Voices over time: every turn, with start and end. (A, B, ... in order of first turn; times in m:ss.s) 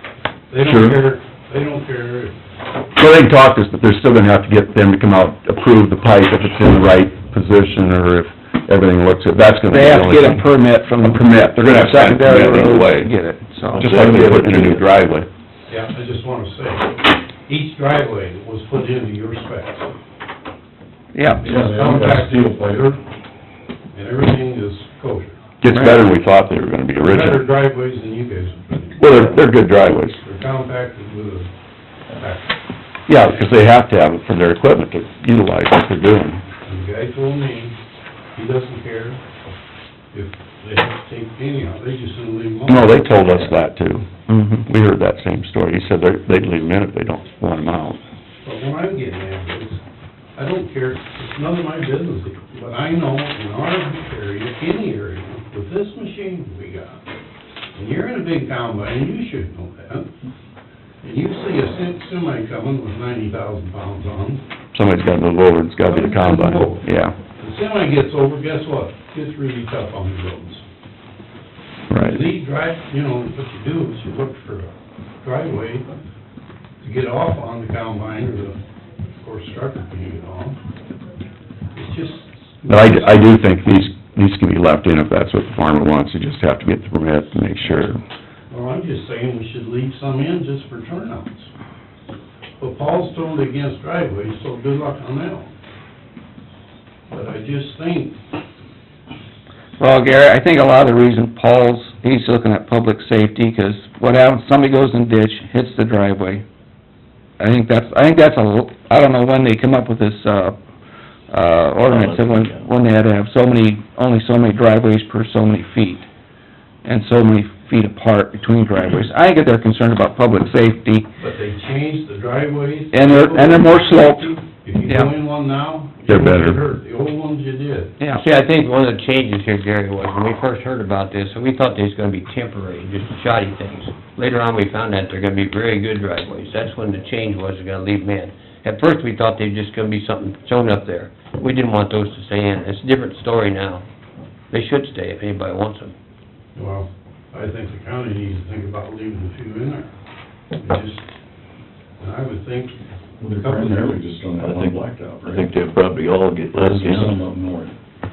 0:00.5-0:02.4 A
0:00.6-0:01.0 B
0:03.0-0:10.5 B
0:09.6-0:13.9 C
0:11.1-0:13.1 B
0:13.7-0:14.8 D
0:13.7-0:15.3 B
0:15.7-0:19.9 A
0:21.1-0:21.5 C
0:21.4-0:23.0 E
0:21.4-0:22.5 A
0:23.9-0:25.4 A
0:25.6-0:27.4 B
0:25.7-0:26.0 C
0:27.0-0:29.3 A
0:29.0-0:30.2 B
0:30.2-0:31.5 A
0:32.1-0:32.6 A
0:33.1-0:36.4 B
0:36.6-0:37.8 A
0:38.3-0:39.2 A
0:40.1-0:43.5 A
0:42.6-0:44.1 B
0:44.3-0:44.6 C
0:44.6-0:48.0 B
0:48.4-0:49.8 A
0:50.4-0:57.0 A
0:57.7-1:00.1 A
1:01.0-1:04.4 A
1:04.7-1:07.1 B
1:05.8-1:06.8 A
1:07.4-1:10.6 A
1:11.9-1:12.2 B
1:12.0-1:15.9 A
1:16.8-1:18.6 A
1:19.2-1:20.6 A
1:21.7-1:23.3 A
1:22.7-1:28.0 B
1:28.5-1:31.5 A
1:32.6-1:35.5 A
1:37.1-1:38.2 A
1:39.8-1:46.4 C
1:47.4-1:50.6 C
1:51.3-1:56.0 C
1:51.8-1:52.7 D
1:56.8-2:01.1 C
2:01.2-2:08.0 A
2:02.9-2:05.1 C
2:06.1-2:06.6 B
2:08.1-2:23.8 F
2:24.5-2:25.9 F
2:26.5-2:29.9 A
2:30.6-2:31.1 A
2:32.0-2:34.0 A
2:33.2-2:35.5 E
2:34.4-2:37.2 D
2:36.5-2:37.7 E